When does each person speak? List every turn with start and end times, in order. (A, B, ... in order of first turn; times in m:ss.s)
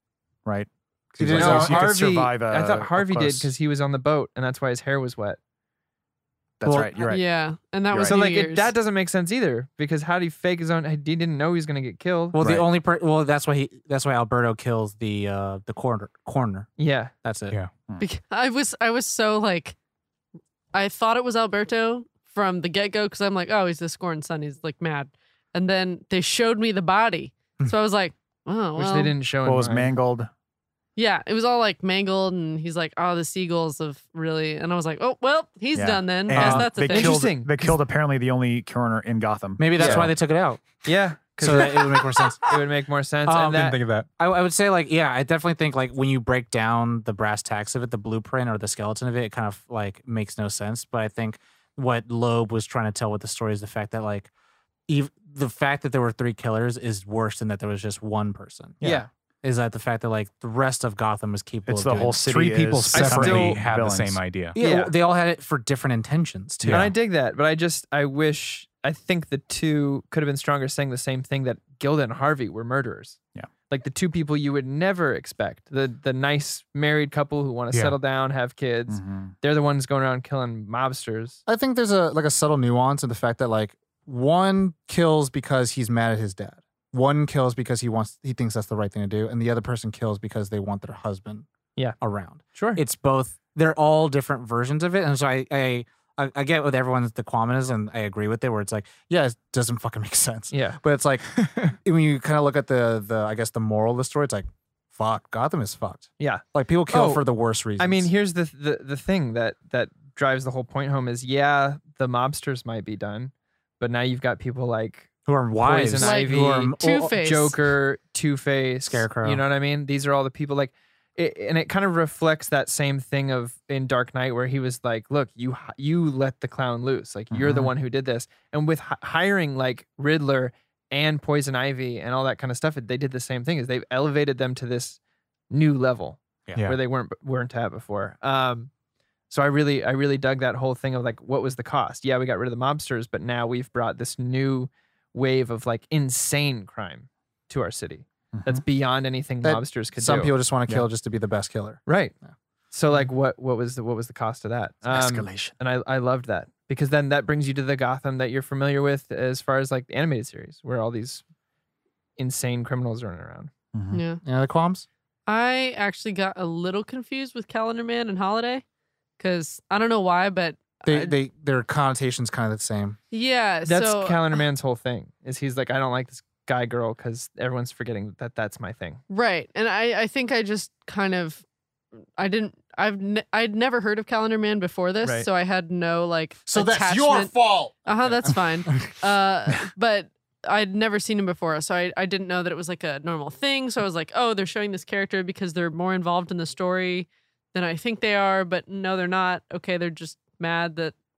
0:00.4-0:03.5 A
0:01.2-0:02.0 B
0:01.3-0:05.4 C
0:06.6-0:07.2 A
0:06.6-0:06.9 B
0:07.0-0:08.7 D
0:07.9-0:08.2 A
0:08.0-0:12.4 C
0:12.3-0:16.7 B
0:12.4-0:12.7 A
0:16.8-0:17.1 C
0:17.2-0:17.6 B
0:18.0-0:19.7 D
0:20.7-0:29.1 D
0:28.8-0:29.9 C
0:29.4-0:30.3 A
0:31.0-0:37.2 D
0:35.7-0:40.1 A
0:36.3-0:37.8 C
0:39.6-0:40.8 B
0:39.8-0:40.1 C
0:40.8-0:43.8 C
0:41.4-0:42.5 B
0:43.3-0:54.3 B
0:43.5-0:44.1 E
0:54.9-0:58.8 B
0:58.8-0:59.0 A
0:58.8-0:59.1 C
0:59.4-1:02.3 B
1:01.7-1:04.2 A
1:02.2-1:04.6 E
1:02.9-1:03.6 C
1:04.6-1:06.9 B
1:04.6-1:04.9 C
1:06.6-1:06.9 E
1:06.7-1:13.2 C
1:13.7-1:21.4 C
1:18.9-1:19.3 A
1:21.5-1:31.4 B
1:32.0-1:48.1 B
1:32.5-1:32.8 C
1:40.5-1:40.8 C
1:46.2-1:47.2 C
1:47.8-1:55.1 C
1:55.3-1:57.1 B
1:55.6-2:15.0 C
1:56.0-1:57.6 D
1:58.8-1:59.4 B
2:07.3-2:07.7 A
2:15.5-2:18.7 C
2:19.3-2:30.3 C
2:28.3-2:28.6 A
2:29.4-2:31.8 B
2:31.9-2:32.1 C
2:32.7-2:41.2 C
2:34.9-2:35.6 A
2:42.2-2:43.5 C
2:43.7-2:44.0 A
2:43.9-2:44.2 D
2:44.2-2:44.9 B
2:45.3-2:48.6 D
2:49.2-2:51.1 D
2:50.8-2:53.0 B
2:53.1-2:54.4 D
2:53.6-2:59.0 C
2:59.1-3:01.4 D
3:02.2-3:20.9 D
3:06.5-3:09.0 B